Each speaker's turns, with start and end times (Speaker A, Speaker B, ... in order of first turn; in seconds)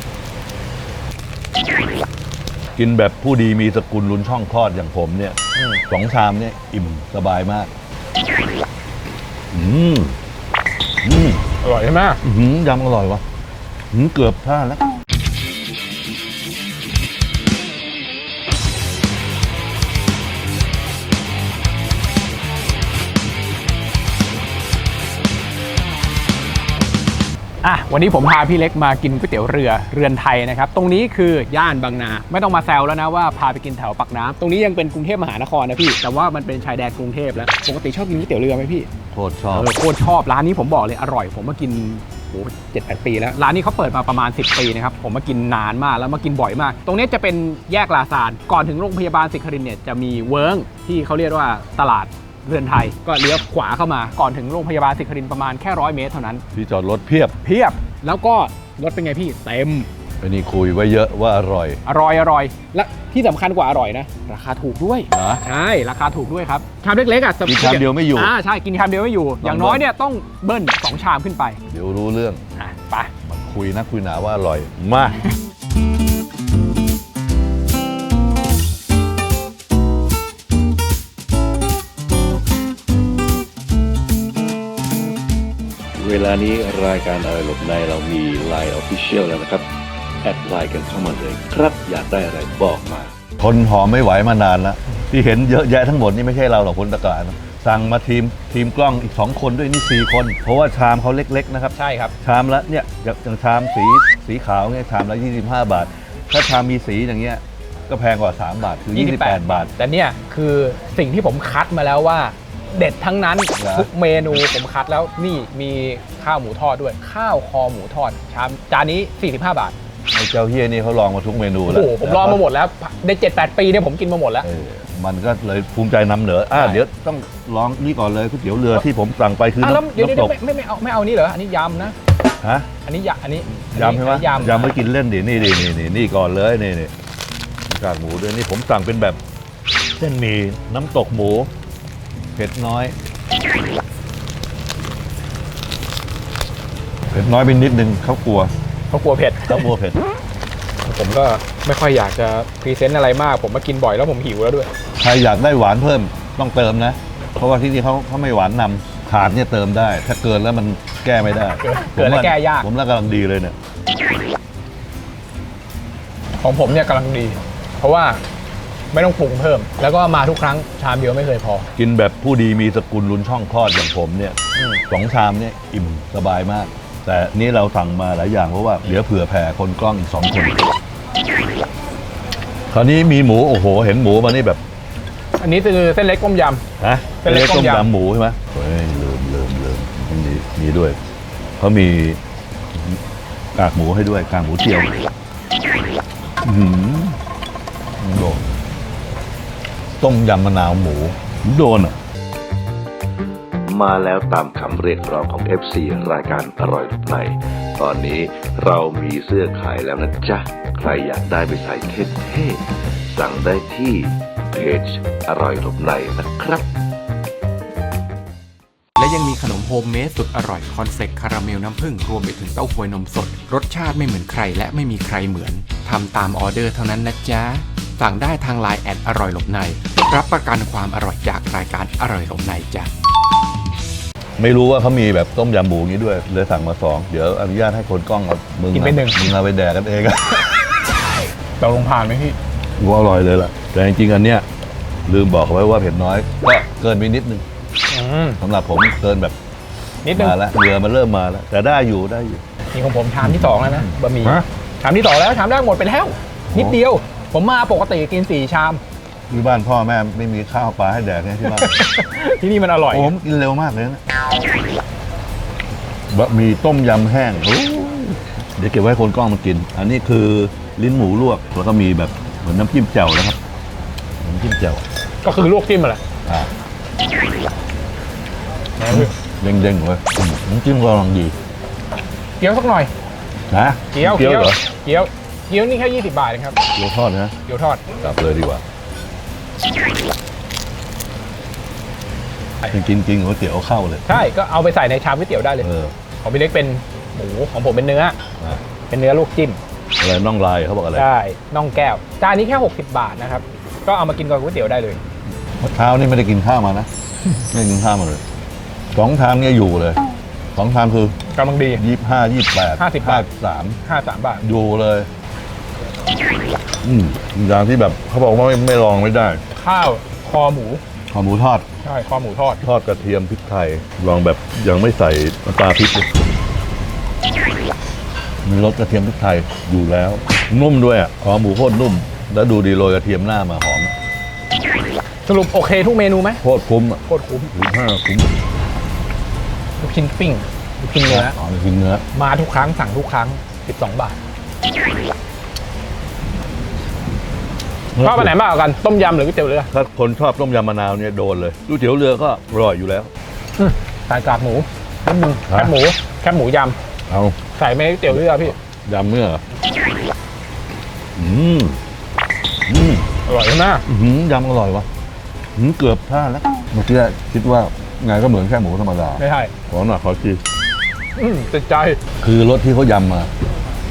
Speaker A: 2.8-5.4, 5.9-7.7, 9.5-10.2, 11.0-11.4, 12.2-13.2, 13.9-14.8, 39.1-39.7, 56.5-57.4, 60.2-61.8, 65.1-65.4, 67.5-68.3, 69.4-69.8, 71.7-72.4, 73.2-75.2, 93.4-109.7, 113.5-114.4, 120.1-122.4, 124.4-130.3, 132.4-132.7, 133.7-136.9, 137.7-139.2, 140.0-141.5, 142.3-142.9, 147.1-148.5, 149.5-150.0, 155.0-163.6, 171.8-180.6, 182.7-184.6, 186.8-191.0, 191.6-192.2, 192.7-193.0, 193.6-194.9, 196.4-197.2, 198.0-198.6, 200.0-202.0, 234.4-240.5, 242.8-244.4, 245.1-247.5, 248.4-249.4, 250.1-252.4, 253.2-254.4, 256.5-256.8, 259.3-261.8, 262.9-264.0, 266.1-273.4, 274.2-274.8, 278.9-281.4, 283.5-284.6, 286.8-287.4, 288.0-288.6, 292.7-294.1, 295.6-295.9, 300.0-301.1, 305.6-306.9, 307.4-308.2, 308.9-310.0, 310.6-311.2, 311.7-313.8, 314.4-315.1, 316.8-319.4, 321.1-321.7, 322.6-326.1, 328.4-333.9, 336.4-338.3, 341.1-342.0, 347.9-348.3, 349.7-353.1, 355.5-355.7, 357.1-357.4, 358.1-359.4, 361.2-361.8, 362.7-363.1, 363.9-364.9, 365.6-370.4, 372.2-373.3
Speaker B: 5.6-5.8, 11.6-12.2, 27.6-38.9, 39.5-56.4, 57.4-59.9, 61.9-71.6, 72.6-73.1, 101.8-102.2, 108.9-119.8, 121.7-124.5, 126.5-126.8, 129.6-132.0, 132.9-134.8, 148.9-149.7, 150.9-154.7, 161.6-162.7, 166.4-168.2, 168.9-171.7, 174.6-174.8, 185.4-186.6, 187.2-187.9, 238.7-239.3, 241.6-242.4, 247.9-248.4, 250.0-250.4, 252.7-258.8, 261.4-263.1, 275.2-276.0, 278.8-279.1, 282.4-282.9, 283.9-286.6, 287.5-287.8, 294.1-295.7, 296.2-298.2, 298.9-299.6, 301.0-305.0, 311.3-311.8, 312.8-313.3, 313.8-314.4, 319.5-320.8, 321.8-322.6, 335.3-336.4, 337.1-337.5, 339.8-341.4, 342.1-344.2, 348.0-349.7, 353.6-356.8, 357.5-358.6, 363.3-363.8, 369.2-369.5, 371.2-372.0
Speaker C: 86.0-89.7, 90.2-93.1, 203.7-216.7
Speaker D: 219.0-232.9